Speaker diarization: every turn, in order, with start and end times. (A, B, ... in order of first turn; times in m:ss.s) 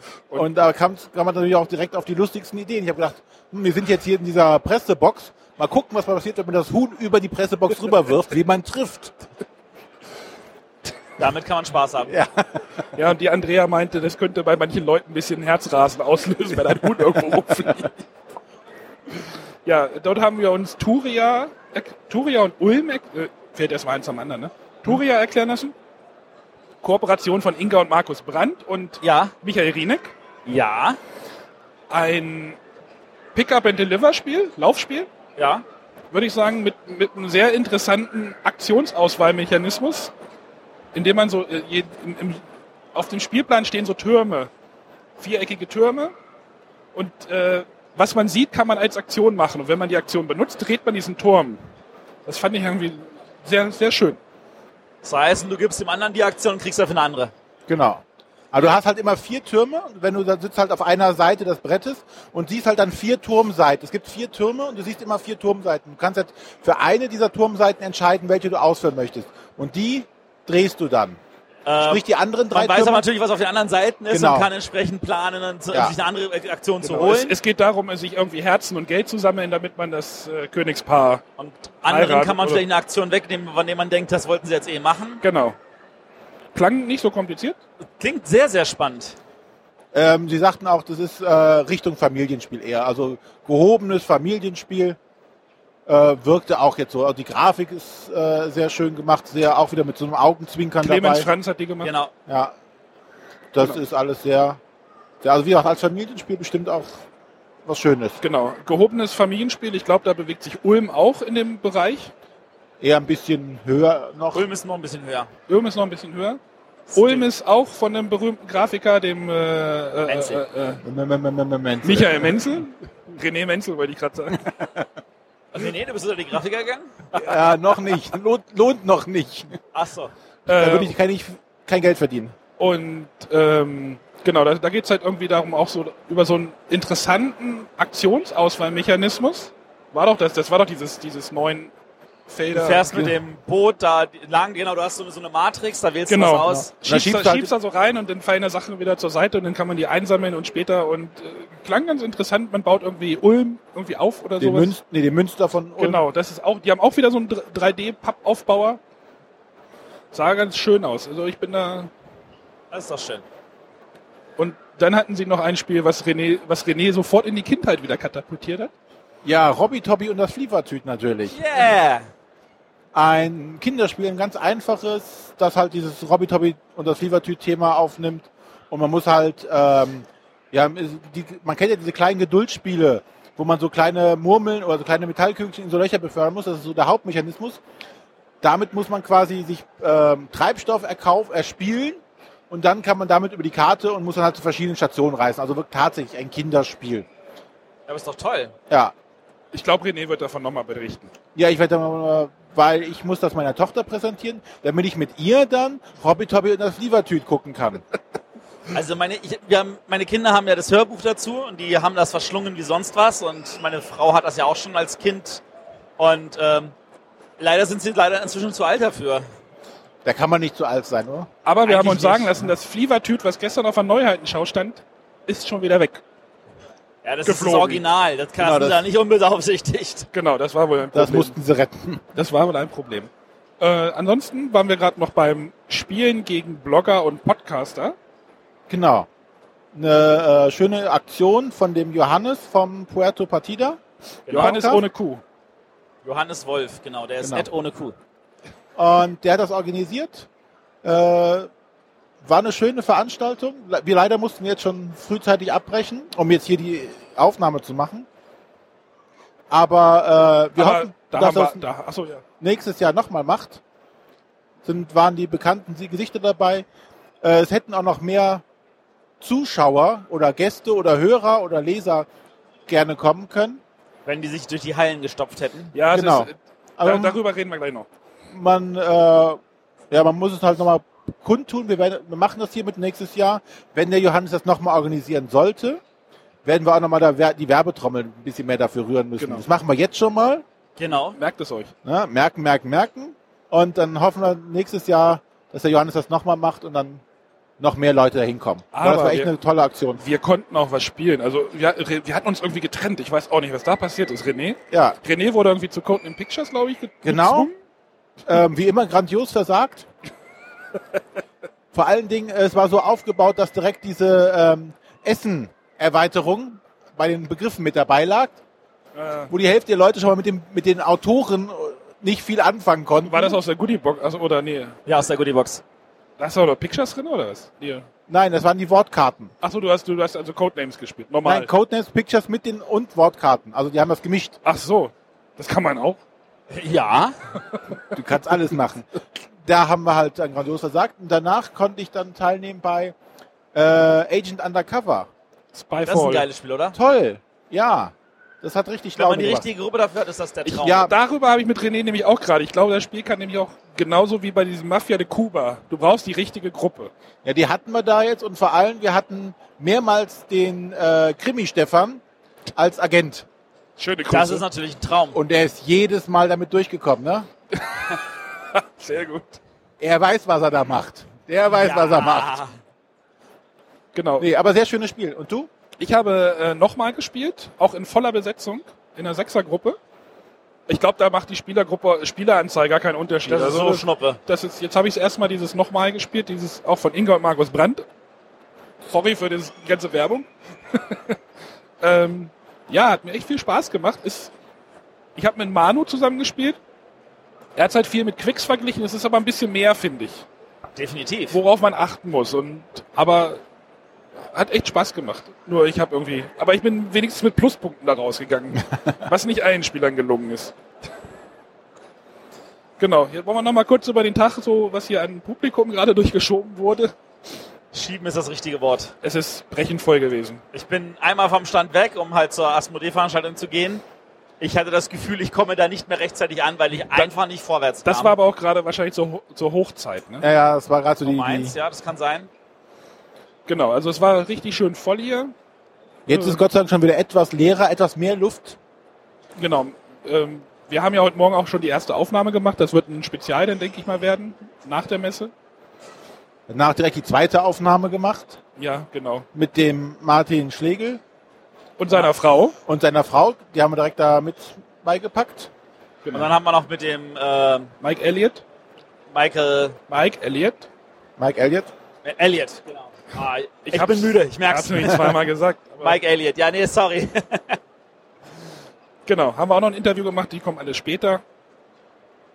0:00.3-0:09.2 A
0:11.2-0:12.1 B
0:12.1-0:12.6 A
0:12.9-0:17.9 C
0:19.6-0:25.7 C
0:26.8-0:30.1 C
0:29.0-0:29.3 B
0:30.4-0:31.0 B
0:31.9-0:32.6 C
0:33.3-0:35.1 C
0:35.4-0:35.6 B
0:36.1-0:40.1 C
0:40.9-0:42.4 C
0:42.9-0:44.5 C
0:45.2-0:46.1 C
0:46.9-0:51.6 C
0:52.2-0:54.2 C
0:55.0-0:57.3 B
0:57.7-1:11.2 A
1:11.6-1:17.4 B
1:11.8-1:13.0 A
1:14.1-1:14.5 A
1:16.8-1:21.2 C
1:21.4-1:25.2 B
1:21.9-1:22.6 C
1:25.2-1:25.6 C
1:26.5-1:27.6 C
1:28.0-1:29.2 B
1:29.9-1:35.0 A
1:35.9-1:41.3 A
1:40.8-1:41.9 C
1:41.8-1:42.1 B
1:42.3-1:42.5 A
1:43.5-1:44.6 A
1:45.2-1:47.0 A
1:47.6-1:48.2 A
1:48.2-1:52.1 C
1:52.8-1:54.5 A
1:54.3-1:55.3 B
1:55.5-1:56.4 C
1:56.9-1:57.3 B
1:56.9-2:00.8 C
2:00.0-2:00.4 B
2:00.8-2:02.4 A
2:01.8-2:04.5 C
2:05.5-2:07.3 B
2:07.1-2:09.6 A
2:09.7-2:10.1 B
2:10.5-2:10.9 C
2:10.5-2:12.3 A
2:12.6-2:21.7 C
2:22.3-2:22.9 C
2:22.5-2:26.7 B
2:26.1-2:34.7 C
2:26.5-2:27.5 A
2:34.4-2:36.0 A
2:35.8-2:38.8 C
2:40.1-2:41.9 C
2:42.7-2:43.2 B
2:44.4-2:48.7 C
2:49.2-2:51.4 A
2:51.3-2:52.1 B
2:52.9-3:07.6 A
3:08.4-3:17.1 A
3:17.9-3:18.5 B
3:19.5-3:21.1 C
3:21.3-3:27.8 A
3:28.7-3:35.4 B
3:36.0-3:36.8 B
3:37.4-3:39.2 B
3:40.0-3:41.3 A
3:41.4-3:46.0 C
3:41.6-3:42.4 B
3:47.0-3:50.1 B
3:47.2-3:47.8 C
3:48.4-3:48.9 A
3:50.1-3:51.4 C
3:50.9-3:52.0 A
3:52.1-3:58.0 C
3:58.7-3:59.1 A
3:59.7-4:03.8 A
4:04.3-4:04.6 B
4:04.3-4:05.2 C
4:04.3-4:04.9 A
4:06.0-4:08.0 B
4:07.2-4:07.5 A
4:08.8-4:10.3 A
4:10.8-4:11.5 A
4:12.2-4:18.1 A
4:19.5-4:21.6 A
4:20.6-4:22.2 C
4:22.4-4:23.6 A
4:24.6-4:26.6 A
4:27.2-4:28.4 A
4:29.2-4:32.1 A
4:32.7-4:33.6 A
4:34.1-4:35.7 B
4:35.7-4:37.9 C
4:35.9-4:37.2 A
4:38.3-4:39.4 A
4:39.9-4:45.8 A
4:46.4-4:50.4 A
4:49.2-4:49.4 C
4:50.8-4:51.2 B
4:51.2-4:51.7 C
4:51.8-4:57.0 A
4:57.6-5:00.0 A
4:58.7-4:59.3 C
5:00.0-5:07.5 C
5:04.7-5:05.0 A
5:07.0-5:07.5 A
5:08.2-5:09.9 A
5:11.7-5:18.4 A
5:18.9-5:19.3 C
5:19.3-5:23.4 A
5:23.0-5:24.8 C
5:24.9-5:25.6 B
5:26.2-5:27.9 C
5:28.1-5:29.3 A
5:29.4-5:31.5 C
5:31.2-5:34.4 A
5:34.4-5:36.0 C
5:36.5-5:37.2 B
5:37.9-5:38.9 A
5:39.4-5:43.0 A
5:43.5-5:45.1 A
5:45.5-5:46.3 C
5:45.8-5:46.8 B
5:46.7-5:49.5 A
5:49.0-5:50.9 B
5:50.4-5:50.9 A
5:50.8-5:56.9 C
5:57.2-6:02.0 A
6:02.5-6:03.3 A
6:03.8-6:04.4 C
6:04.1-6:05.2 B
6:05.1-6:07.3 A
6:07.5-6:09.4 C
6:09.8-6:12.4 A
6:11.5-6:12.6 B
6:13.9-6:14.3 C
6:14.2-6:15.5 A
6:15.8-6:19.8 C
6:20.7-6:27.9 C
6:23.3-6:24.2 B
6:28.9-6:31.2 C
6:31.8-6:34.3 C
6:35.2-6:36.6 C
6:37.6-6:40.2 C
6:40.8-6:41.4 B
6:41.3-6:43.4 C
6:44.3-6:50.5 C
6:52.8-6:56.9 C
6:57.7-6:58.9 B
6:59.0-7:00.4 C
7:00.5-7:03.8 B
7:04.4-7:08.1 B
7:07.8-7:10.2 C
7:10.2-7:11.5 A
7:11.0-7:12.3 B
7:13.5-7:15.3 C
7:16.1-7:18.6 A
7:16.1-7:16.4 C
7:19.4-7:25.3 C
7:26.5-7:28.4 A
7:28.6-7:29.3 C
7:29.3-7:31.0 A
7:31.8-7:32.6 C
7:32.6-7:35.5 A
7:36.0-7:36.3 C
7:36.1-7:37.7 B
7:37.8-7:38.4 C
7:39.1-7:39.8 B
7:39.9-7:40.7 C
7:41.2-7:41.7 A
7:42.0-7:45.2 B
7:43.7-7:46.0 C
7:45.8-7:47.6 B
7:49.1-7:51.2 C